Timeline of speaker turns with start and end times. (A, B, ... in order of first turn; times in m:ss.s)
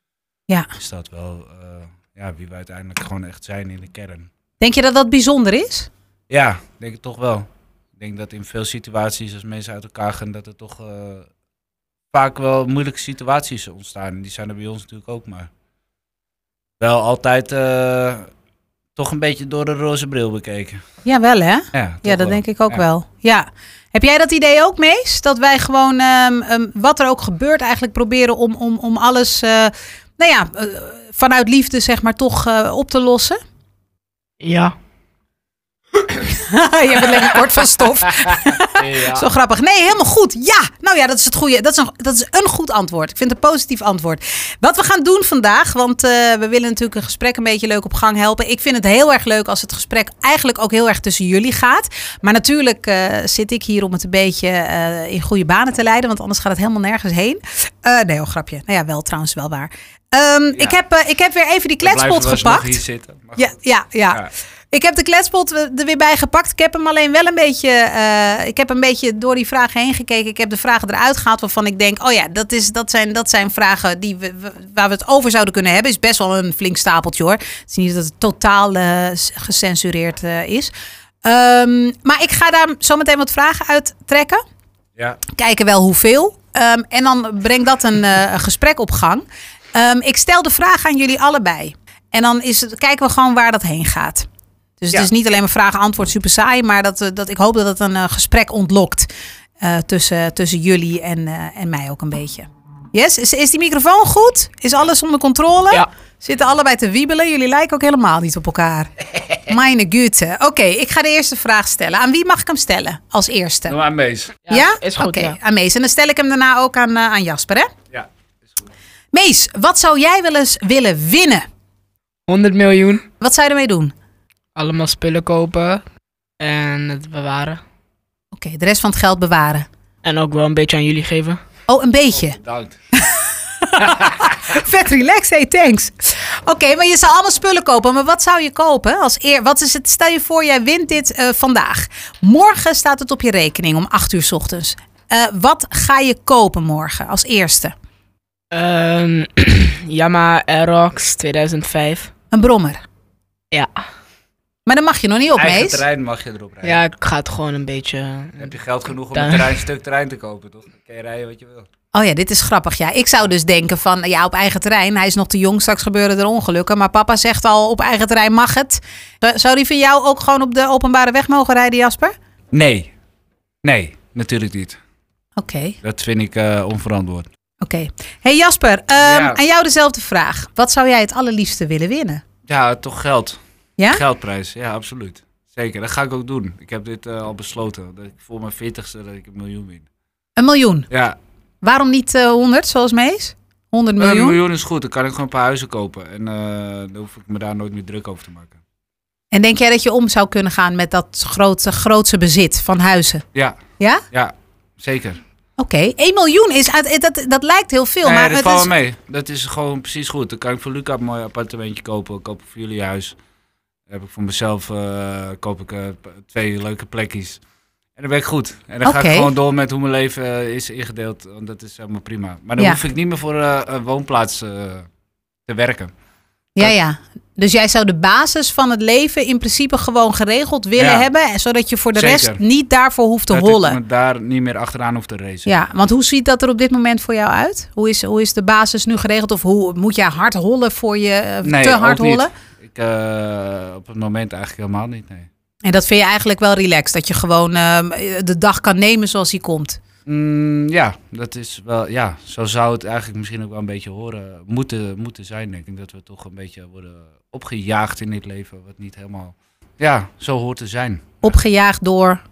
0:00.8-0:04.3 A
0:04.6-0:05.9 B
0:06.3-0:11.3 A
0:12.1-0:15.5 A
0:16.8-0:18.3 A
0:19.0-0:20.8 A
0:21.0-0:33.4 B
0:21.7-0:22.8 A
0:34.4-0:34.7 C
0:36.2-1:02.8 B
0:38.0-0:39.3 A
1:01.8-1:03.5 A
1:03.4-1:20.7 B
1:21.2-1:24.4 B
1:25.3-1:34.3 B
1:34.8-1:48.9 B
1:49.4-1:53.8 B
1:53.7-1:54.4 A
1:54.5-1:55.4 C
1:54.5-1:57.7 B
1:57.9-1:58.6 A
1:59.1-2:01.4 B
2:02.3-2:03.0 C
2:03.2-2:03.9 B
2:04.6-2:05.8 C
2:06.4-2:07.6 C
2:08.3-2:09.7 B
2:10.0-2:11.4 C
2:11.7-2:12.4 B
2:12.3-2:12.8 A
2:12.9-2:27.7 B
2:13.8-2:14.4 A
2:28.5-2:32.1 C
2:32.3-2:32.8 B
2:33.5-2:33.8 C
2:34.6-2:35.8 B
2:35.4-2:36.8 A
2:36.6-2:38.6 C
2:38.4-2:41.7 A
2:39.1-2:39.6 C
2:41.9-2:52.1 B
2:52.5-2:52.9 A
2:53.6-2:54.8 A
2:55.4-2:55.8 B
2:55.8-2:57.3 A
2:57.6-3:02.2 B
2:59.0-2:59.4 A
3:02.5-3:03.4 A
3:03.9-3:09.9 A
3:10.4-3:10.9 B
3:10.9-3:11.2 A
3:11.6-3:14.4 B
3:14.0-3:18.6 A
3:19.3-3:23.2 B
3:23.3-3:23.6 A
3:23.8-3:24.0 B
3:24.1-3:25.2 A
3:25.6-3:28.7 B
3:28.0-3:33.2 A
3:33.9-3:37.4 A
3:38.0-3:44.9 A
3:38.8-3:39.3 B
3:45.4-3:45.9 A
3:46.6-3:53.8 B
3:50.8-3:51.0 A
3:51.9-3:52.4 A
3:53.3-3:55.6 A
3:55.4-4:02.3 B
4:01.4-4:05.3 A
4:05.6-4:09.8 B
4:10.0-4:21.4 A
4:21.2-4:22.2 B